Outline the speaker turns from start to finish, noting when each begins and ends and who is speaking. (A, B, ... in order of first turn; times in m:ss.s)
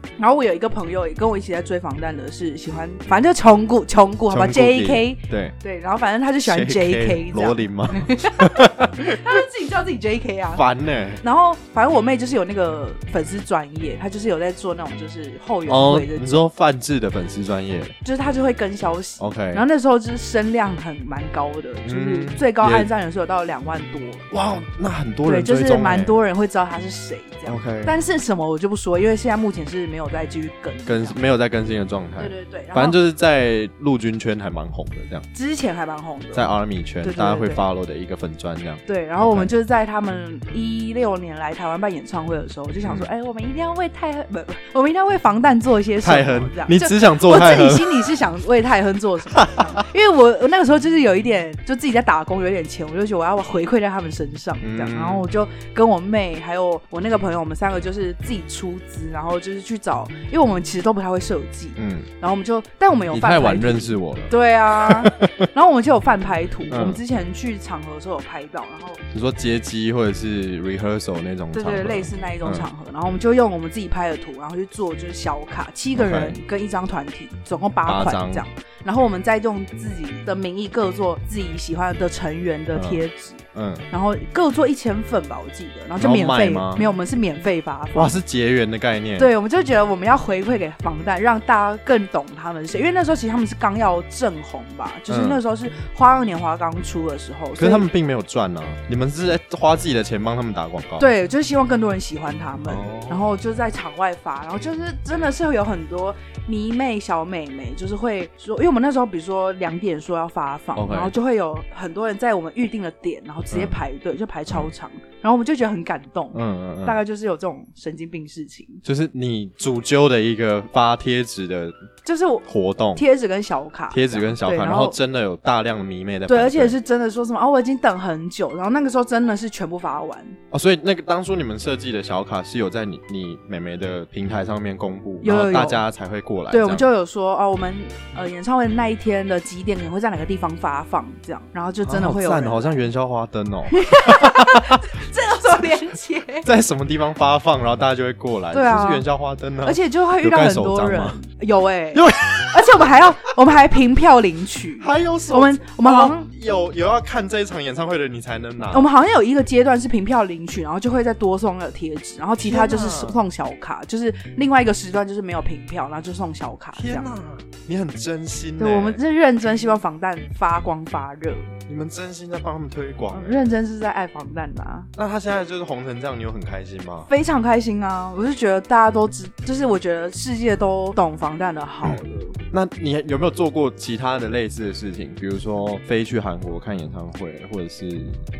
0:00.2-0:10.6 A
0:04.3-0:05.6 B
0:06.4-0:09.2 B
0:10.6-0:11.2 B
0:11.2-0:16.4 A
0:15.7-0:17.9 B
0:18.0-0:24.3 A
0:19.2-0:19.6 B
0:21.9-0:22.9 B
0:24.3-0:26.2 B
0:25.2-0:31.2 A
0:27.4-0:27.9 B
0:30.9-0:35.3 B
0:32.2-0:33.0 A
0:35.3-0:36.5 A
0:36.3-0:39.5 B
0:37.0-0:37.6 A
0:38.9-1:09.0 A
0:46.0-0:48.1 B
0:49.3-0:49.8 B
0:54.6-0:55.2 B
1:01.8-1:02.1 B
1:03.1-1:05.5 B
1:06.7-1:07.0 B
1:09.1-1:12.6 B
1:11.5-1:28.2 A
1:15.9-1:16.4 B
1:17.9-1:18.4 B
1:22.8-1:23.0 B
1:23.5-1:23.8 B
1:26.0-1:26.9 B
1:27.9-1:29.3 B
1:29.2-1:37.8 A
1:35.1-1:35.4 B
1:37.6-1:41.1 B
1:41.0-1:58.8 A
1:42.7-1:43.2 B
1:50.7-1:51.1 B
1:53.5-1:53.8 B
1:56.3-1:57.0 B
1:58.8-2:01.8 B
2:02.0-2:05.0 A
2:02.4-2:03.0 B
2:03.9-2:06.7 B
2:06.3-2:10.4 A
2:10.5-2:16.8 B
2:15.2-2:15.8 A
2:16.5-2:22.8 A
2:21.8-2:24.8 B
2:23.7-2:26.5 A
2:26.4-2:31.2 B
2:28.5-2:29.1 A
2:29.6-2:36.3 A
2:31.9-2:33.1 B
2:34.8-2:38.9 B
2:38.7-2:47.1 A
2:42.4-2:43.2 B
2:46.8-2:49.0 B
2:48.6-2:51.5 A
2:51.7-2:53.5 B
2:53.1-2:54.9 A
2:55.0-2:57.1 B
2:57.1-3:02.4 A
3:02.5-3:08.2 B